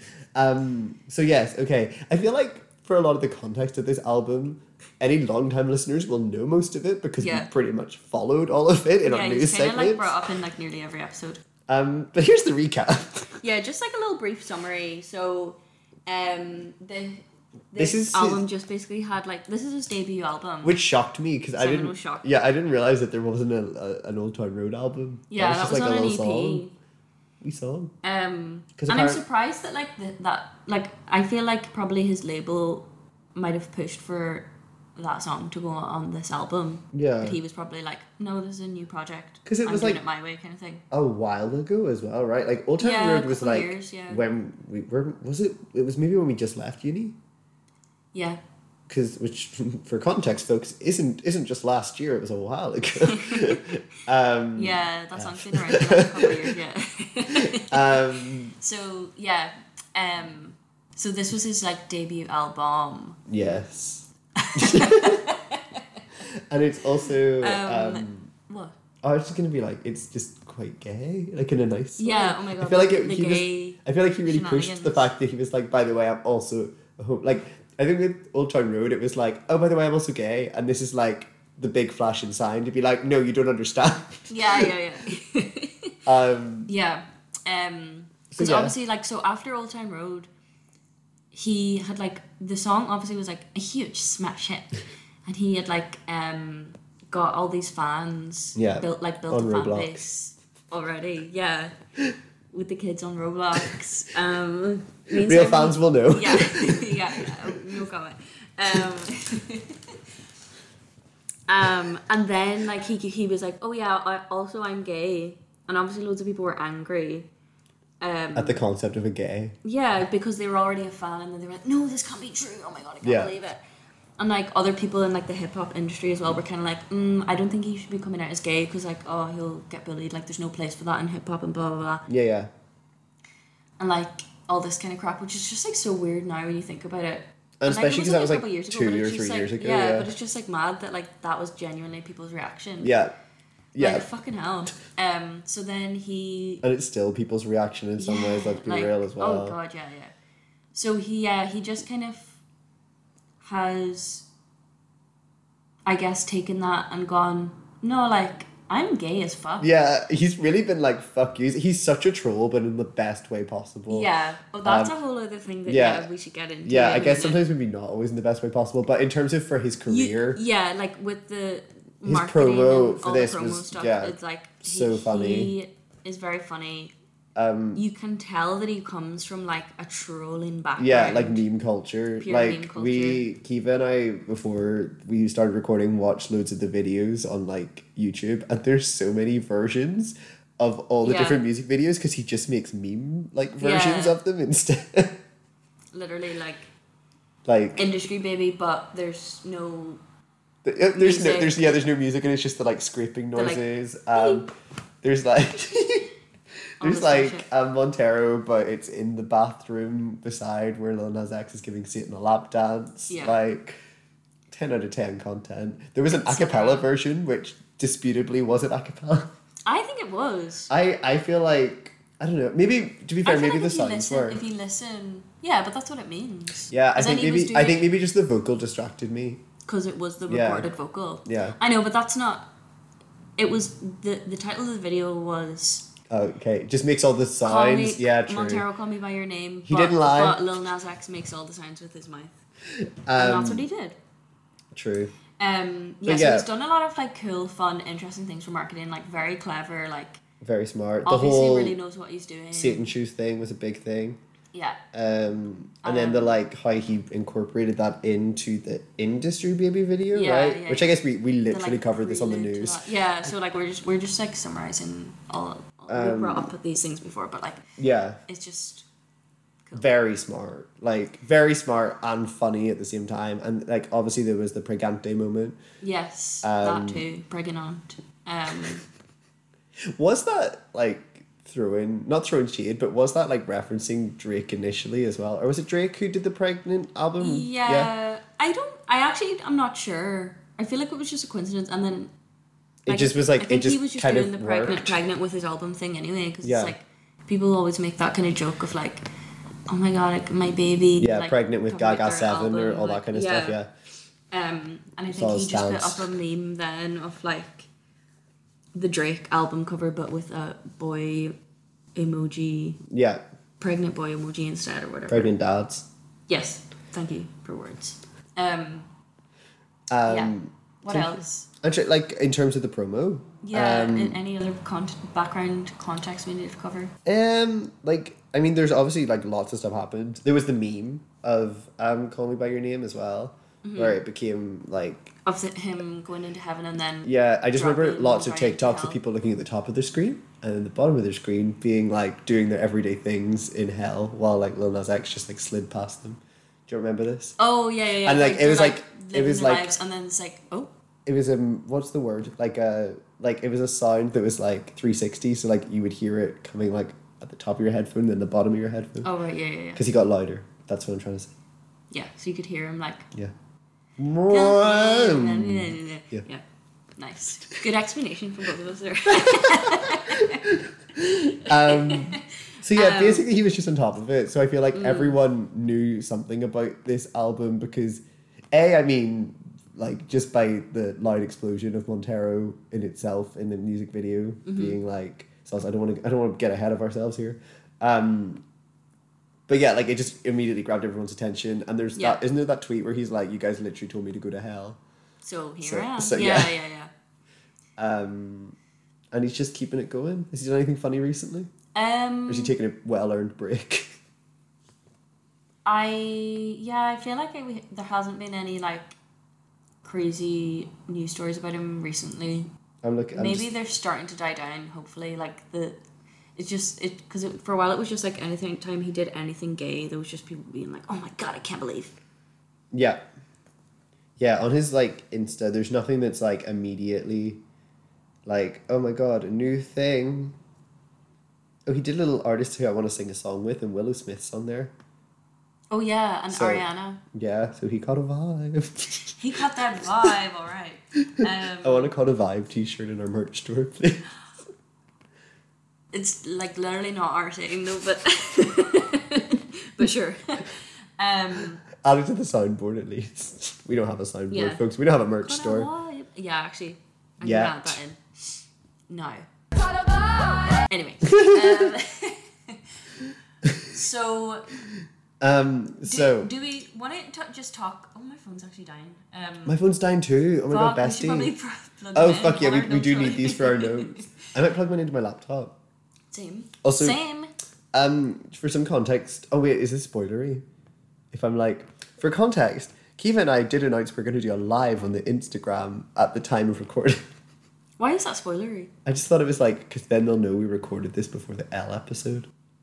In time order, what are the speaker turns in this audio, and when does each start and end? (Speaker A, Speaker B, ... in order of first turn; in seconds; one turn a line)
Speaker A: 0.3-10.2
Speaker B: 7.2-7.5
Speaker B: 9.0-11.4
Speaker A: 11.7-13.3
Speaker B: 13.4-20.7
Speaker A: 17.7-18.4
Speaker A: 20.6-26.6
Speaker B: 21.6-22.3
Speaker B: 25.3-26.7
Speaker A: 27.4-27.9
Speaker B: 28.0-40.8
Speaker A: 28.8-29.2
Speaker A: 36.9-37.4
Speaker A: 39.5-40.0
Speaker A: 40.9-47.2
Speaker B: 42.8-44.2
Speaker B: 48.1-48.4
Speaker A: 48.9-56.5
Speaker B: 53.0-53.6
Speaker B: 54.5-63.2
Speaker A: 57.3-58.5
Speaker A: 63.3-65.3
Speaker B: 64.4-65.8
Speaker A: 66.5-68.3
Speaker B: 67.4-68.8
Speaker A: 69.0-84.7
Speaker B: 72.0-75.1
Speaker B: 84.3-86.0
Speaker A: 86.0-86.7
Speaker B: 86.7-90.3
Speaker A: 88.3-88.7
Speaker B: 91.3-101.7
Speaker A: 98.5-100.0
Speaker B: 102.5-109.9
Speaker A: 105.1-107.6
Speaker B: 111.5-117.3
Speaker B: 118.0-118.6
Speaker A: 118.3-119.5
Speaker B: 119.6-123.6
Speaker A: 123.0-123.3
Speaker B: 124.2-132.1
Speaker A: 132.1-132.5
Speaker B: 133.8-142.9
Speaker A: 137.6-140.1
Speaker A: 142.8-143.1
Speaker A: 143.7-144.1
Speaker B: 143.8-146.6
Speaker A: 146.6-149.6
Speaker B: 148.0-150.1
Speaker B: 150.7-152.4
Speaker B: 153.4-154.2
Speaker B: 155.8-159.7
Speaker A: 159.6-164.1
Speaker B: 163.9-167.4
Speaker A: 164.6-164.9
Speaker A: 165.7-166.1
Speaker A: 166.6-170.4
Speaker B: 169.9-176.9
Speaker A: 172.0-175.5
Speaker A: 177.3-177.8
Speaker B: 177.7-181.4
Speaker A: 180.8-195.2
Speaker B: 182.2-183.3
Speaker B: 191.0-191.4
Speaker B: 193.6-194.2
Speaker B: 195.9-196.7
Speaker A: 197.4-197.9
Speaker B: 197.8-200.0
Speaker A: 200.6-204.5
Speaker B: 200.9-201.6
Speaker B: 203.3-204.4
Speaker A: 205.0-206.1
Speaker B: 206.8-207.5
Speaker A: 206.8-213.8
Speaker B: 213.1-213.4
Speaker A: 214.5-219.3
Speaker B: 216.1-216.9
Speaker B: 219.7-220.7
Speaker A: 220.7-224.4
Speaker B: 223.2-227.9
Speaker A: 226.7-229.4
Speaker B: 229.7-232.5
Speaker A: 230.3-230.7
Speaker A: 231.2-231.6
Speaker B: 233.4-235.9
Speaker A: 236.1-238.6
Speaker B: 237.4-242.4
Speaker A: 239.7-240.5
Speaker A: 242.8-243.7
Speaker B: 243.2-244.0
Speaker A: 244.7-245.1
Speaker B: 245.4-250.2
Speaker A: 246.0-246.5
Speaker A: 250.4-251.8
Speaker B: 251.1-252.9
Speaker A: 252.5-254.2
Speaker B: 254.5-254.8
Speaker A: 254.9-262.8
Speaker B: 255.8-256.3
Speaker B: 260.1-261.0
Speaker B: 261.5-267.6
Speaker A: 265.9-266.5
Speaker A: 267.8-268.2
Speaker B: 268.2-268.9
Speaker A: 269.7-275.6
Speaker B: 275.8-278.8
Speaker A: 276.4-277.0
Speaker A: 279.9-287.9
Speaker B: 287.2-292.1
Speaker A: 292.9-295.0
Speaker B: 292.9-299.1
Speaker A: 296.4-296.7
Speaker B: 299.7-303.6
Speaker A: 301.0-303.7
Speaker B: 304.3-307.7
Speaker A: 305.1-306.1
Speaker B: 308.7-311.4
Speaker B: 311.9-312.8
Speaker A: 312.9-313.2
Speaker B: 313.6-315.3
Speaker A: 315.1-315.9
Speaker B: 316.3-318.9
Speaker A: 319.9-324.2
Speaker B: 320.1-321.5
Speaker B: 323.4-326.9
Speaker A: 327.0-335.1
Speaker B: 333.6-334.0
Speaker B: 335.2-339.0
Speaker A: 337.0-347.4
Speaker B: 347.4-350.7
Speaker A: 348.1-349.7
Speaker A: 351.1-359.1
Speaker B: 359.0-359.8
Speaker A: 359.7-361.3
Speaker B: 361.9-363.1
Speaker A: 364.0-366.2
Speaker B: 364.3-366.4
Speaker B: 367.0-370.4
Speaker A: 369.1-388.4
Speaker B: 371.5-373.3
Speaker B: 374.7-375.2
Speaker B: 384.4-384.8
Speaker A: 389.5-394.8
Speaker B: 391.9-392.2
Speaker B: 395.2-396.9
Speaker A: 395.6-396.5
Speaker A: 397.8-398.6
Speaker A: 399.1-401.5
Speaker B: 401.7-402.5
Speaker A: 402.3-403.9
Speaker B: 405.6-408.9
Speaker B: 409.8-412.5
Speaker A: 412.8-413.5
Speaker B: 413.1-415.8
Speaker B: 416.4-421.9
Speaker A: 422.7-423.0
Speaker A: 424.2-427.4
Speaker A: 428.2-430.4
Speaker A: 431.6-434.7
Speaker B: 435.7-437.0
Speaker A: 436.3-439.1
Speaker B: 439.1-441.9
Speaker A: 439.8-440.1
Speaker A: 441.2-444.1
Speaker B: 445.9-451.6
Speaker A: 451.7-455.7
Speaker B: 454.3-454.6
Speaker B: 455.2-459.2
Speaker A: 457.2-457.8
Speaker B: 460.2-462.6
Speaker B: 463.6-464.6
Speaker A: 465.2-466.3
Speaker B: 465.8-469.6
Speaker A: 469.4-471.3
Speaker B: 470.5-474.1
Speaker A: 471.9-475.5
Speaker B: 476.1-477.3
Speaker A: 476.6-477.0
Speaker A: 477.7-480.4
Speaker A: 481.1-487.0
Speaker B: 487.8-488.7
Speaker A: 488.8-492.3